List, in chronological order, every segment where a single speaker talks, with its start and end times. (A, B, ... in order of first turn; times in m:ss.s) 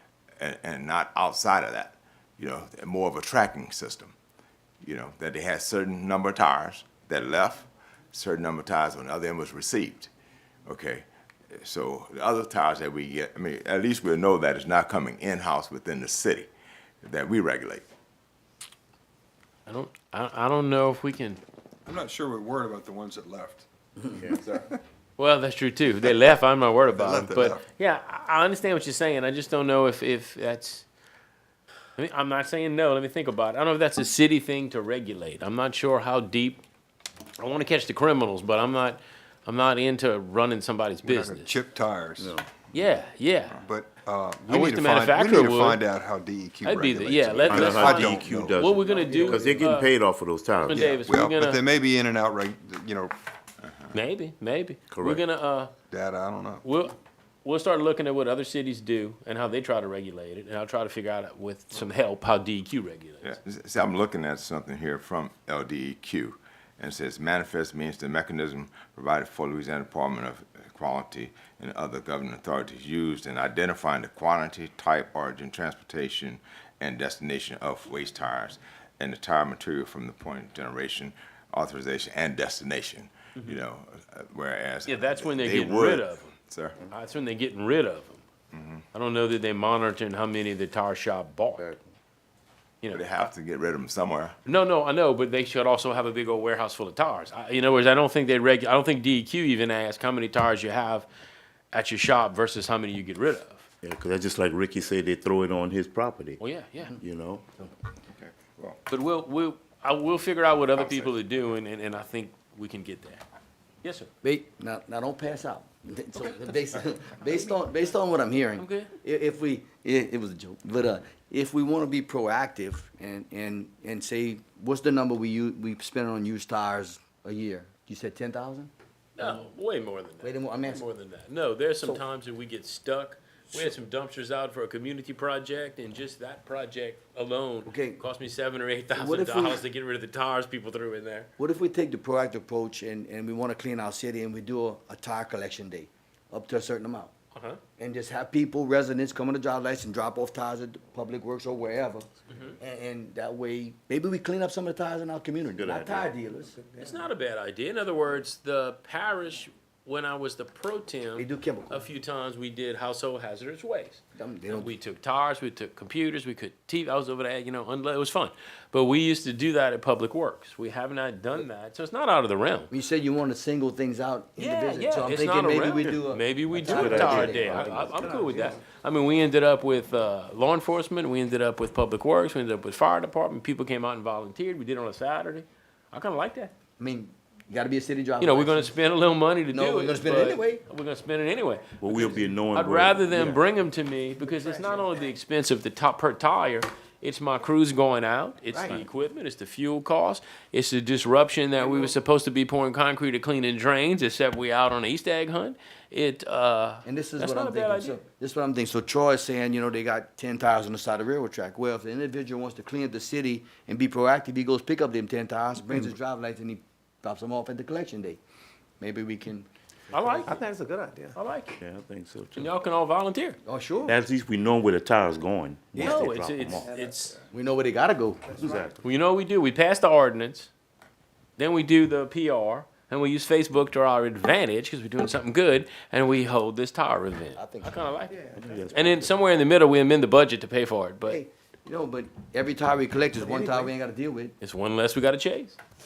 0:00.4-0:04.1 A
0:04.8-0:10.1 A
0:10.7-0:16.5 A
0:17.0-0:17.8 A
0:19.7-0:21.4 B
0:21.9-0:24.7 C
0:24.3-0:24.6 A
0:25.2-0:30.9 B
0:26.9-0:27.6 C
0:32.0-0:36.6 B
0:37.4-0:41.6 B
0:41.0-0:42.4 C
0:42.2-0:42.5 D
0:42.7-0:43.6 B
0:43.6-0:48.7 C
0:44.4-0:45.8 B
0:46.6-0:49.9 B
0:47.5-0:50.8 D
0:48.8-0:49.6 E
0:50.7-0:51.6 B
0:50.7-0:53.1 C
0:53.6-0:53.9 A
0:53.9-0:55.7 B
0:54.9-0:55.2 D
0:55.9-0:56.6 C
0:56.6-1:03.4 B
1:03.2-1:26.8 A
1:24.9-1:26.3 B
1:26.9-1:28.2 B
1:28.5-1:28.8 A
1:28.9-1:31.7 B
1:32.8-1:33.1 B
1:32.9-1:34.4 A
1:34.4-1:41.1 B
1:41.7-1:43.7 B
1:43.8-1:46.4 D
1:46.4-1:47.0 B
1:47.0-1:47.4 D
1:48.2-1:48.8 A
1:48.9-1:53.2 B
1:50.7-1:51.2 A
1:53.8-1:54.1 B
1:54.2-2:09.4 E
1:58.6-1:58.9 B
2:09.2-2:21.3 B
2:10.2-2:10.8 E
2:17.7-2:18.0 E
2:18.9-2:19.6 E
2:21.4-2:27.1 E
2:27.3-2:27.6 B
2:27.8-2:32.1 E
2:32.6-2:36.6 E
2:35.6-2:36.1 D
2:36.8-2:52.7 B
2:41.2-2:41.8 E
2:44.2-2:44.7 E
2:52.7-2:58.1 E
2:54.4-3:06.5 B
2:56.6-2:57.9 D
2:58.2-2:58.5 F
3:06.8-3:08.7 E
3:08.2-3:28.0 B
3:09.5-3:10.6 E
3:11.8-3:13.4 D
3:14.3-3:14.8 F
3:18.5-3:18.8 F
3:26.8-3:38.2 E
3:38.8-3:39.5 E
3:39.9-3:40.5 B
3:40.2-3:41.2 F
3:41.2-3:41.6 B
3:41.6-3:42.5 D
3:42.4-3:43.4 B
3:43.4-3:44.0 E
3:43.9-3:46.7 D
3:45.7-3:46.1 E
3:45.7-3:47.2 B
3:46.7-3:46.9 F
3:47.3-3:48.6 E
3:48.4-3:48.8 D
3:48.8-3:50.5 B
3:51.4-4:01.2 B
3:57.4-3:57.9 E
3:58.2-3:58.5 F
3:58.4-3:59.1 D
4:01.1-4:04.3 E
4:03.4-4:03.7 F
4:04.4-4:05.6 B